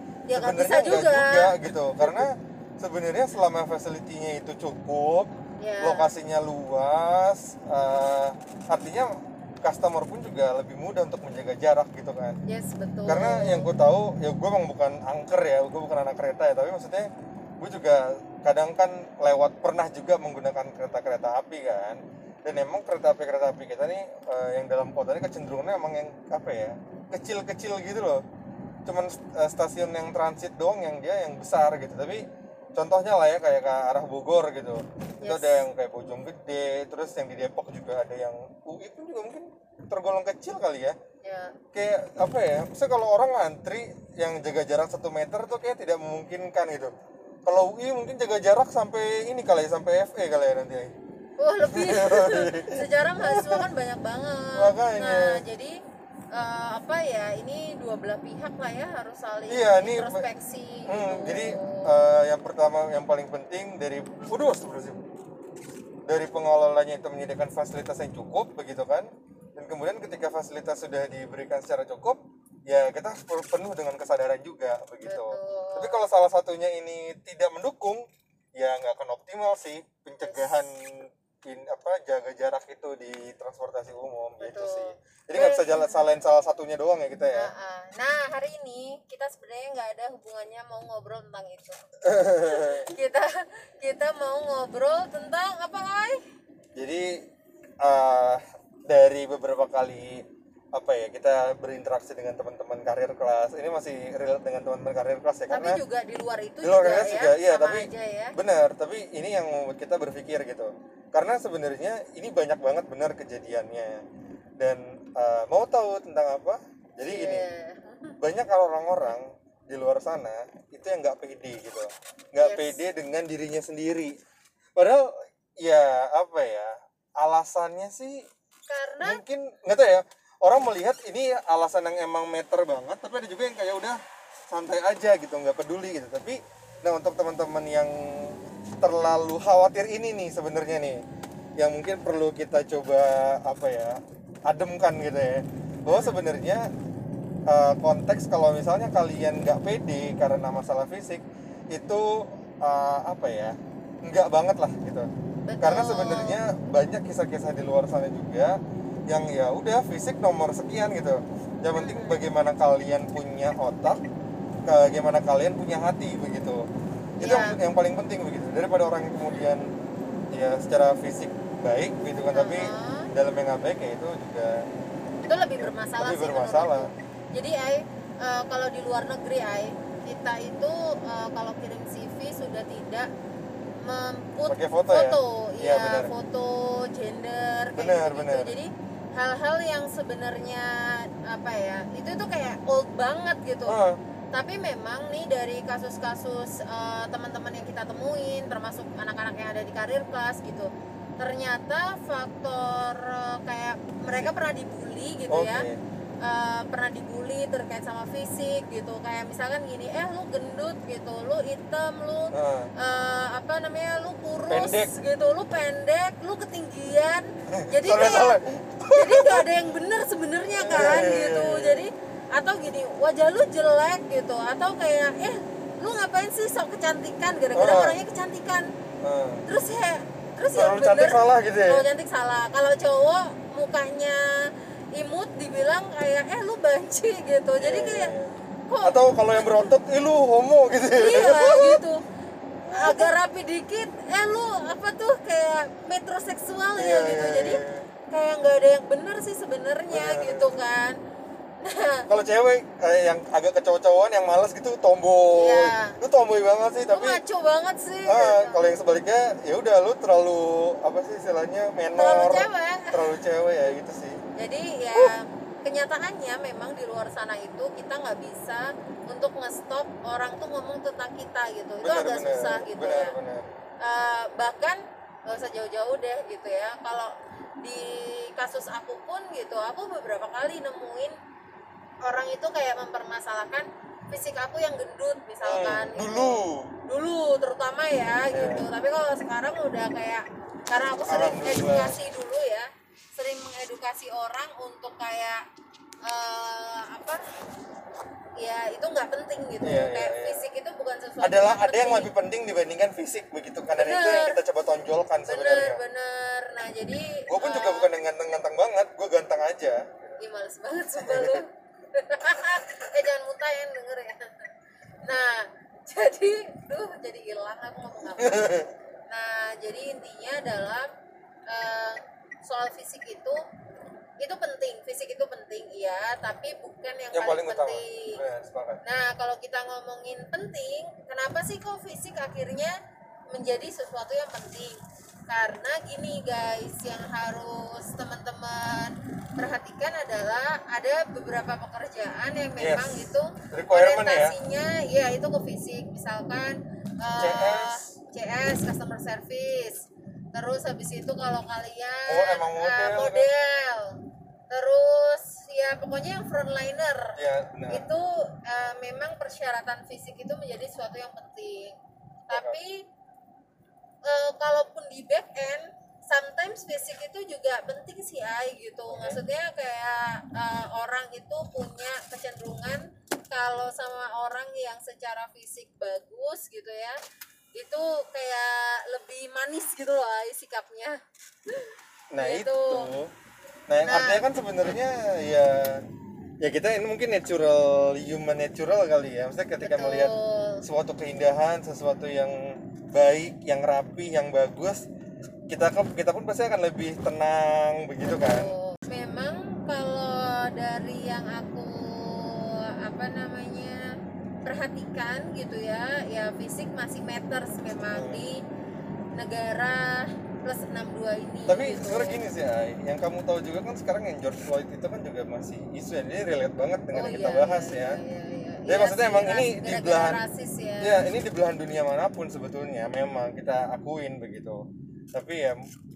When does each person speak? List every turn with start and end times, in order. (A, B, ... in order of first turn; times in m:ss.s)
0:00.3-0:02.3 A
0:00.3-0:12.4 B
0:05.6-0:06.1 A
0:12.4-0:13.7 A
0:13.1-0:17.1 B
0:17.6-0:28.2 B
0:28.8-0:41.0 B
0:35.2-0:35.6 A
0:41.2-0:41.6 A
0:41.7-0:46.9 B
0:47.4-0:50.9 B
0:51.4-0:55.8 A
0:51.7-0:53.6 B
0:54.6-0:55.4 B
0:56.3-1:01.9 A
0:59.5-1:00.2 B
1:00.9-1:05.0 B
1:06.1-1:18.0 B
1:15.0-1:16.0 A
1:18.6-1:27.5 B
1:20.2-1:20.7 A
1:24.4-1:26.1 A
1:27.3-1:36.2 A
1:32.0-1:32.9 B
1:36.8-1:37.2 B
1:37.8-1:45.8 B
1:45.5-1:48.4 A
1:46.6-1:54.0 B
1:54.6-1:57.5 B
1:57.0-1:58.2 A
1:58.2-2:04.2 B
2:02.4-2:02.8 A
2:04.8-2:08.3 B
2:08.7-2:09.2 A
2:09.0-2:14.0 B
2:14.5-2:21.0 B
2:21.6-2:26.7 B
2:25.9-2:26.2 A
2:27.5-2:35.1 B
2:35.5-2:36.4 A
2:35.6-2:44.0 B
2:41.7-2:42.2 A
2:44.7-2:46.6 B
2:47.2-2:47.6 A
2:47.2-2:49.7 B
2:50.3-2:54.5 B
2:52.3-2:53.1 A
2:55.2-3:03.1 A
2:55.6-2:56.9 B
3:03.8-3:13.8 A
3:04.5-3:06.1 B
3:07.8-3:08.6 B
3:13.7-3:14.0 B
3:14.3-3:25.7 A
3:25.3-3:25.8 B
3:26.2-3:48.7 A
3:32.3-3:32.7 B
3:34.5-3:34.9 B
3:37.5-3:39.5 B
3:40.6-3:41.9 B
3:47.5-3:48.0 B
3:49.0-3:49.4 B
3:49.4-3:58.1 A
3:50.5-3:51.8 B
3:57.6-4:01.8 B
3:58.7-3:59.6 A
4:00.9-4:02.0 A
4:02.6-4:03.2 B
4:02.7-4:11.0 A
4:06.8-4:07.9 B
4:09.9-4:10.6 B
4:11.6-4:12.1 A
4:12.1-4:17.2 B
4:15.3-4:16.0 A
4:16.9-4:18.7 A
4:18.0-4:24.2 B
4:22.0-4:23.1 A
4:24.4-4:33.1 A
4:31.8-4:33.5 B
4:33.8-4:41.2 A
4:42.0-4:55.4 A
4:45.4-4:46.8 B
4:48.3-4:48.7 B
4:51.1-4:52.0 B
4:56.0-4:57.2 A
4:58.4-5:02.1 A
4:59.6-5:00.4 B
5:01.2-5:05.8 B
5:03.8-5:04.4 A
5:05.2-5:07.9 A
5:07.3-5:10.1 B
5:10.2-5:14.5 A
5:11.0-5:11.4 B
5:15.0-5:20.9 A
5:18.2-5:18.7 B
5:21.5-5:23.4 A
5:24.2-5:28.2 A
5:27.1-5:28.8 B
5:28.8-5:32.7 A
5:33.3-5:54.0 A
5:42.6-5:44.4 B
5:47.2-5:48.0 B
5:52.1-5:53.3 B
5:54.5-5:57.2 A
5:57.2-5:57.9 B
5:57.7-6:01.8 A
6:02.3-6:02.8 A
6:02.3-6:02.6 B
6:04.0-6:17.0 A
6:08.9-6:09.2 B
6:17.6-6:22.9 A
6:22.1-6:23.1 B
6:23.7-6:25.9 B
6:23.8-6:24.3 A
6:26.4-6:34.8 B
6:29.6-6:30.6 A
6:35.5-6:38.5 B
6:38.0-6:43.8 A
6:44.4-6:48.4 A
6:47.9-6:48.2 B
6:49.2-6:52.2 A
6:51.5-6:58.0 B
6:56.9-7:01.0 A
6:58.7-7:00.2 B
7:00.8-7:05.6 B